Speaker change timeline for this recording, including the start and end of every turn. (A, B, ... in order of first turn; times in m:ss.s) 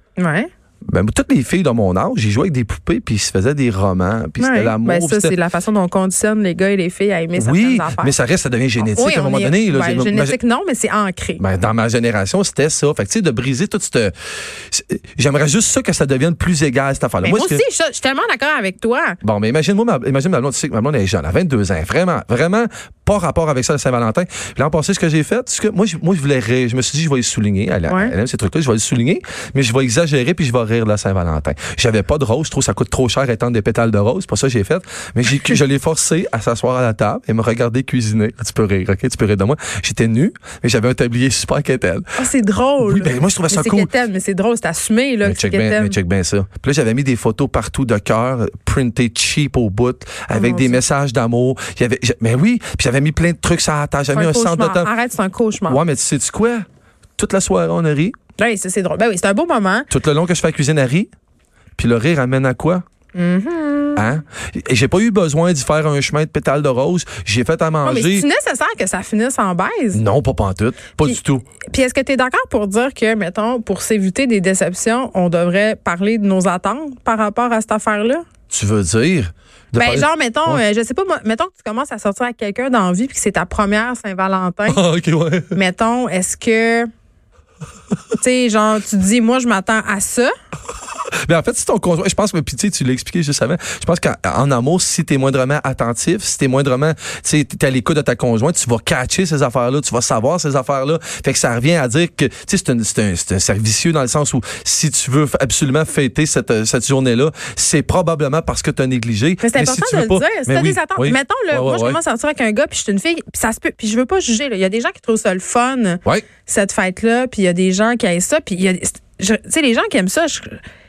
0:00.2-0:00.5 A
0:00.9-0:05.3 B
0:04.4-0:08.2 A
0:07.4-0:10.4 B
0:08.8-0:11.4 A
0:11.4-0:17.6 B
0:17.2-0:19.2 A
0:19.2-0:42.2 B
0:27.9-0:28.2 A
0:42.2-0:46.0 A
0:42.8-0:43.9 B
0:45.2-0:54.9 B
0:50.3-0:50.8 A
0:54.1-0:55.8 A
0:55.6-0:56.6 B
0:57.2-0:58.2 B
0:58.4-0:59.9 A
0:59.9-1:01.1 B
1:01.8-1:02.8 B
1:03.1-1:04.1 A
1:04.0-1:08.3 B
1:07.8-1:10.0 A
1:09.9-1:11.5 B
1:11.0-1:18.3 A
1:18.5-1:20.6 B
1:19.8-1:24.8 A
1:24.7-1:25.6 B
1:25.5-1:26.9 A
1:28.2-1:30.3 A
1:30.9-1:52.0 B
1:49.4-2:00.6 A